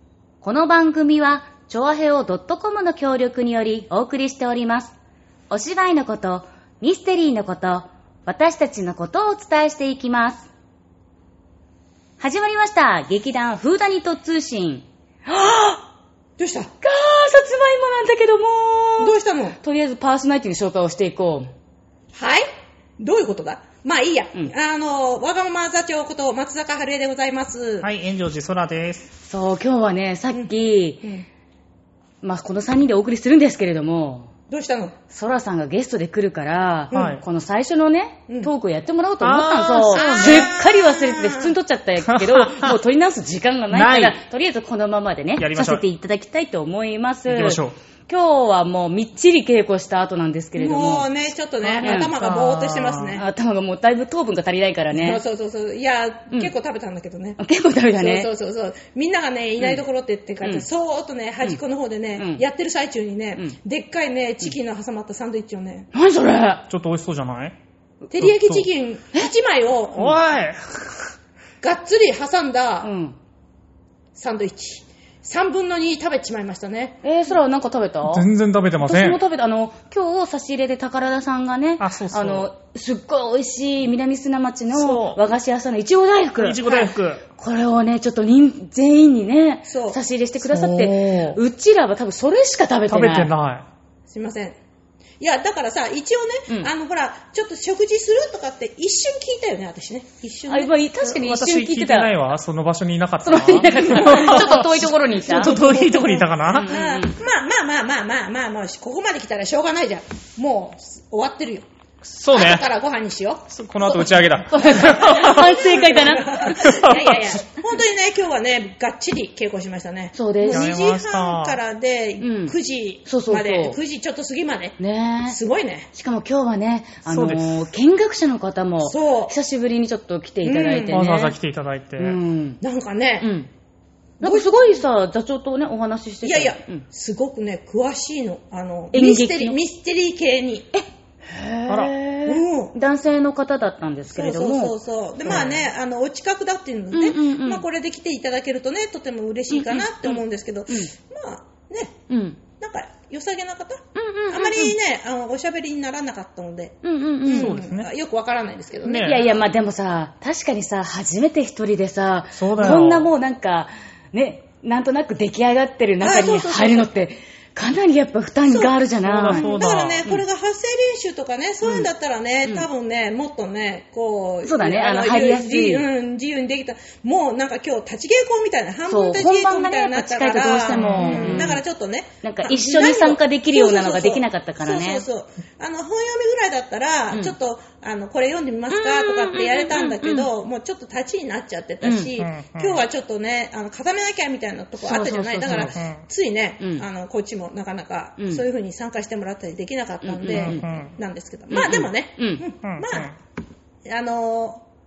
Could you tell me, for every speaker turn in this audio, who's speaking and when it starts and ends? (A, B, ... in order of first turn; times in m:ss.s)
0:00.4-0:04.9 A
0:05.5-0:10.5 A
0:12.2-0:15.8 A
0:16.4-0:16.7 B
0:16.8-0:21.5 A
0:19.0-0:19.6 B
0:22.1-0:22.4 B
0:23.0-0:27.9 B
0:27.8-0:29.1 C
0:29.2-0:31.1 A
0:30.3-0:31.2 B
0:32.2-0:34.3 A
0:34.5-0:34.9 B
0:35.1-0:51.1 A
0:36.9-0:37.2 B
0:36.9-0:37.2 C
0:39.2-0:40.5 C
0:39.9-0:41.5 B
0:42.0-0:42.8 C
0:43.7-0:44.2 C
0:45.4-0:45.8 C
0:47.3-0:47.8 C
0:50.6-0:53.2 B
0:51.6-0:53.2 C
0:51.8-0:52.1 A
0:53.1-0:55.2 A
0:54.9-0:57.4 B
0:57.4-0:58.3 A
0:58.0-1:05.9 B
1:02.2-1:02.4 A
1:05.9-1:06.6 A
1:06.7-1:07.6 C
1:08.1-1:10.2 B
1:08.2-1:08.6 C
1:09.9-1:11.1 C
1:11.6-1:12.9 B
1:12.8-1:13.2 A
1:14.2-1:17.0 B
1:17.0-1:18.3 A
1:18.0-1:19.2 C
1:18.8-1:26.6 A
1:21.8-1:22.5 C
1:24.7-1:25.2 C
1:26.4-1:27.2 C
1:26.6-1:26.9 B
1:27.4-1:33.3 A
1:29.6-1:30.0 B
1:30.4-1:31.4 C
1:32.9-1:33.6 C
1:34.1-1:34.6 B
1:35.2-1:40.8 B
1:40.5-1:42.2 A
1:41.0-1:46.7 C
1:43.2-1:47.2 A
1:45.5-1:46.0 B
1:46.7-1:51.6 B
1:52.0-1:52.6 C
1:52.3-2:05.9 B
1:53.5-1:55.6 C
1:54.5-1:56.8 A
1:56.6-1:57.2 C
2:00.1-2:00.7 A
2:00.5-2:01.6 C
2:02.2-2:02.5 A
2:03.0-2:03.8 A
2:04.8-2:05.4 A
2:05.9-2:11.4 A
2:07.0-2:07.6 C
2:08.8-2:09.3 B
2:10.4-2:11.1 B
2:10.9-2:12.2 C
2:12.0-2:12.6 A
2:12.6-2:13.3 B
2:13.2-2:13.5 A
2:14.2-2:14.8 B
2:14.2-2:16.8 A
2:16.2-2:20.7 B
2:18.9-2:19.6 A
2:20.7-2:24.7 A
2:21.7-2:21.9 C
2:22.2-2:22.7 B
2:24.1-2:31.9 B
2:25.3-2:25.6 A
2:26.9-2:27.6 A
2:29.5-2:30.9 A
2:32.1-2:32.4 A
2:32.6-2:39.4 B
2:33.9-2:34.8 A
2:36.8-2:37.6 A
2:37.3-2:37.9 C
2:38.8-2:39.2 C
2:39.0-2:50.2 A
2:42.3-2:43.1 C
2:46.0-2:46.9 B
2:48.5-2:48.7 B
2:49.0-2:50.1 C
2:49.2-3:23.1 B
2:51.6-2:51.9 A
2:54.4-2:55.8 A
2:58.9-3:01.6 A
3:00.7-3:01.5 C
3:02.2-3:05.0 A
3:08.7-3:10.3 A
3:11.8-3:12.1 A
3:12.2-3:12.8 C
3:14.8-3:15.7 A
3:15.5-3:16.0 C
3:16.6-3:16.8 A
3:18.2-3:18.4 A
3:20.0-3:20.6 A
3:20.3-3:20.9 C
3:21.5-3:22.4 A
3:22.6-3:23.1 C
3:23.8-3:24.6 B